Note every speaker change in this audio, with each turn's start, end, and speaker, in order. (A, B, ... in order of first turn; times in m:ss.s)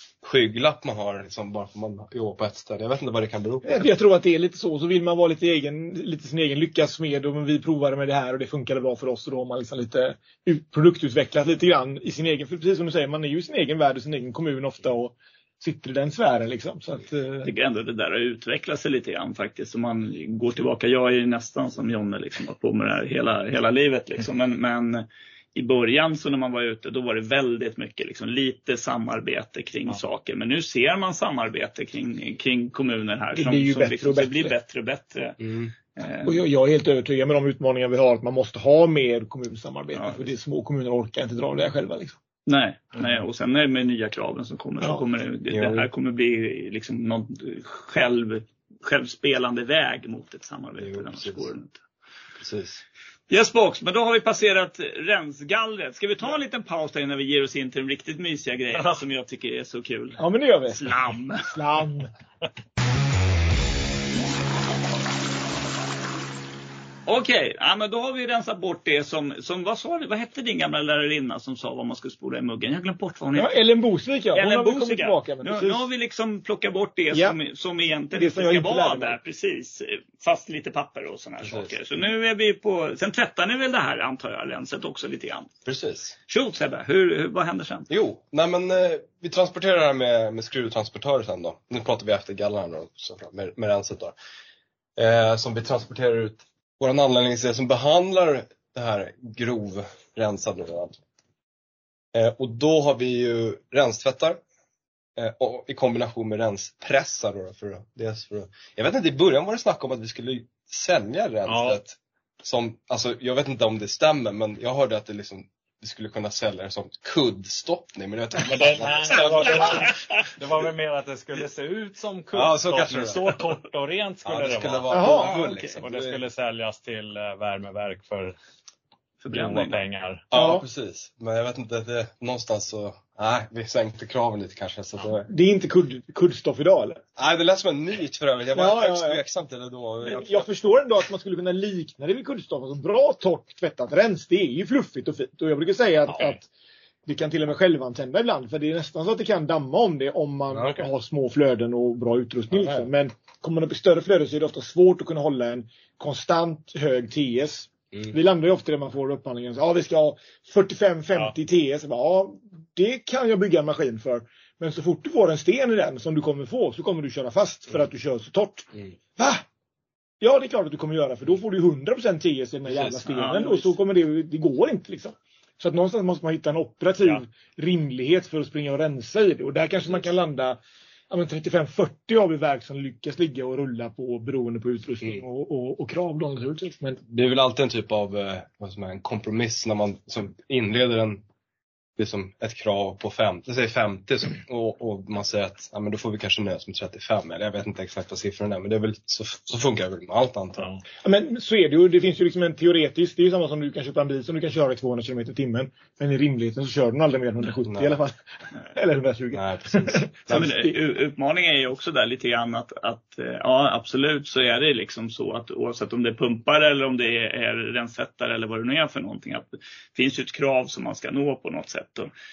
0:00.2-0:03.9 A
0:03.6-0:17.5 B
0:17.4-0:35.4 C
0:33.4-0:34.6 B
0:35.4-0:35.7 A
0:36.0-0:36.4 C
0:36.2-0:42.2 B
0:40.0-0:40.2 C
0:42.5-0:51.8 C
0:45.5-0:45.9 A
0:50.8-0:51.5 A
0:52.4-0:52.8 A
0:53.3-1:01.5 C
1:00.2-1:00.9 B
1:01.4-1:02.1 B
1:07.1-1:13.6 C
1:13.4-1:15.9 B
1:14.3-1:25.5 C
1:18.1-1:19.2 B
1:21.4-1:21.7 A
1:25.6-1:26.2 A
1:26.3-1:27.9 C
1:27.9-1:34.1 A
1:35.0-1:41.0 A
1:42.1-1:44.4 A
1:45.2-2:00.0 A
1:51.5-1:51.8 D
1:58.4-2:08.4 D
2:02.3-2:03.3 A
2:04.2-2:06.2 A
2:04.9-2:05.3 B
2:05.2-2:05.8 C
2:09.2-2:09.8 C
2:09.3-2:10.3 D
2:10.3-2:15.3 A
2:10.3-2:10.6 B
2:15.3-2:17.0 B
2:17.2-2:20.5 A
2:18.6-2:19.2 B
2:20.0-2:26.4 B
2:27.1-2:49.4 B
2:30.5-2:30.9 A
2:50.2-3:07.0 B
2:52.9-2:53.8 C
3:07.1-3:11.2 A
3:12.0-3:20.7 A
3:20.6-3:20.8 D
3:21.0-3:30.8 B
3:27.7-3:28.0 A
3:29.3-3:30.1 A
3:30.3-3:42.1 C